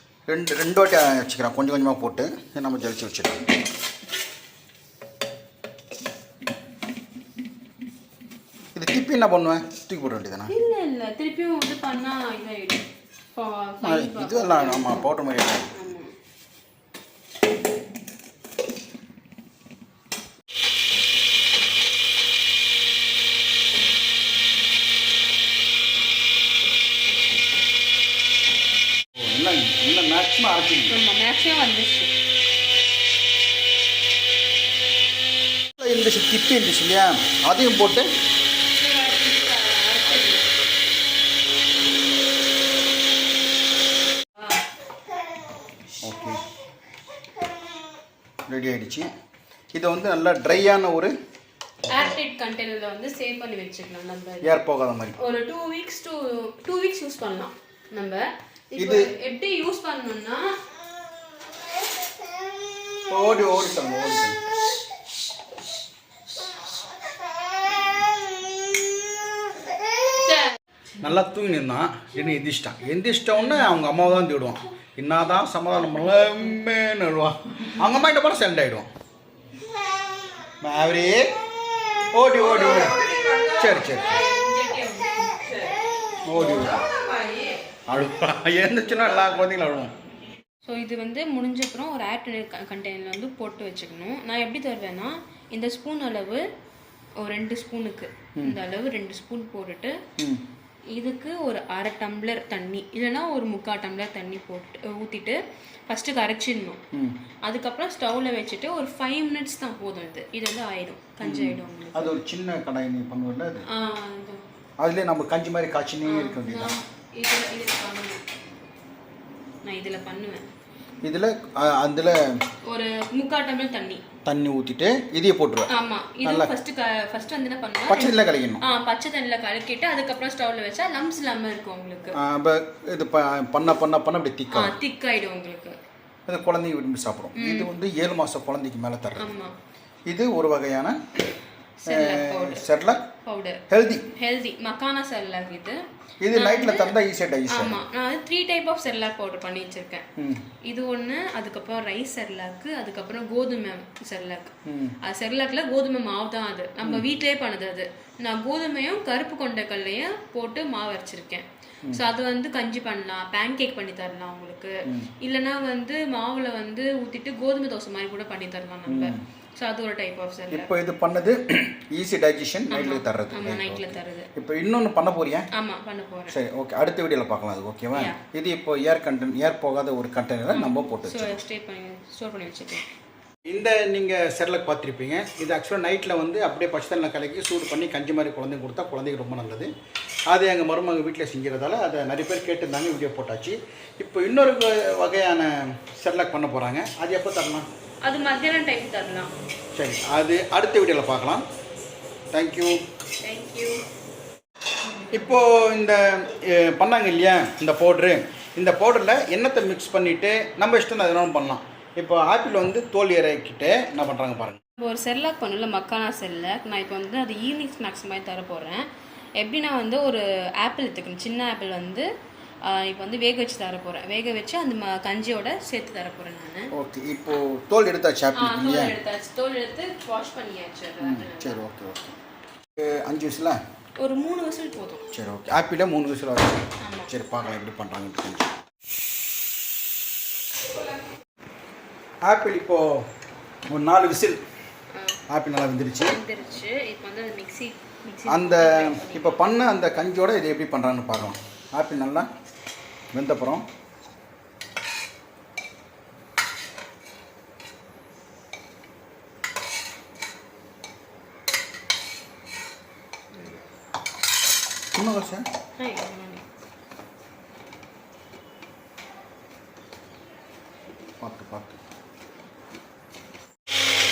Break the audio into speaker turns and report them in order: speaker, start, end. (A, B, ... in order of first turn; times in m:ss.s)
0:00.3-0:03.4 A
0:08.8-0:10.5 A
0:10.5-0:12.8 B
0:13.4-0:15.1 B
0:13.8-0:15.8 A
0:15.7-0:16.1 B
0:29.2-0:31.0 A
0:30.9-0:32.1 B
0:35.8-0:38.1 A
0:38.7-0:40.5 B
0:44.4-0:44.6 B
0:46.0-0:46.4 A
0:48.5-0:49.1 A
0:49.7-0:51.1 A
0:51.9-0:54.5 B
0:54.4-0:55.2 A
0:55.2-1:00.6 B
0:58.8-0:59.1 A
1:03.1-1:04.4 A
1:10.1-1:10.6 B
1:11.0-1:18.9 A
1:13.5-1:13.8 B
1:20.6-1:21.2 A
1:22.1-1:23.0 A
1:22.4-1:25.8 B
1:23.6-1:24.2 A
1:26.2-1:26.8 A
1:26.3-1:27.6 B
1:27.9-1:29.9 A
1:30.6-1:36.4 B
1:37.2-1:40.0 B
1:40.2-1:40.4 A
1:41.0-1:46.8 B
1:47.4-1:52.2 B
1:51.2-1:53.6 A
1:53.7-1:54.4 B
1:54.8-1:56.7 A
1:56.1-1:58.2 B
1:59.6-2:00.4 B
2:01.0-2:02.4 A
2:02.7-2:04.0 B
2:04.2-2:05.7 A
2:05.7-2:12.2 B
2:06.2-2:06.5 A
2:07.9-2:08.6 A
2:12.1-2:14.8 A
2:14.5-2:15.8 B
2:16.3-2:19.3 A
2:17.4-2:17.7 B
2:19.1-2:19.6 B
2:20.1-2:21.0 A
2:21.8-2:22.6 B
2:21.9-2:23.0 A
2:23.2-2:25.8 B
2:23.7-2:24.1 A
2:26.2-2:27.8 A
2:26.3-2:26.9 B
2:27.5-2:30.1 B
2:30.2-2:30.4 A
2:30.6-2:50.7 B
2:34.7-2:35.0 A
2:48.9-2:49.2 A
2:50.5-2:55.5 A
2:52.7-2:54.3 B
2:55.5-2:56.4 B
2:56.3-3:01.4 A
3:00.5-3:02.9 B
3:03.5-3:09.7 A
3:10.3-3:17.6 A
3:18.0-3:19.3 B
3:19.8-3:21.4 A
3:22.3-3:22.8 A
3:23.2-3:23.8 B
3:25.0-3:25.4 B
3:25.1-3:34.6 A
3:34.8-3:38.9 B
3:39.4-3:42.1 B
3:42.6-3:46.7 B
3:46.7-3:49.0 A
3:48.4-3:51.6 B
3:51.0-3:52.2 A
3:52.8-3:53.6 A
3:54.0-3:55.1 B
3:55.1-3:58.5 A
3:56.8-3:57.1 B
4:02.2-4:03.0 A
4:03.7-4:04.4 A
4:04.9-4:05.2 B
4:05.3-4:06.2 A
4:06.0-4:09.4 B
4:08.3-4:12.3 A
4:13.1-4:13.6 A
4:25.0-4:25.5 A
4:25.8-4:26.4 B
4:31.2-4:31.8 A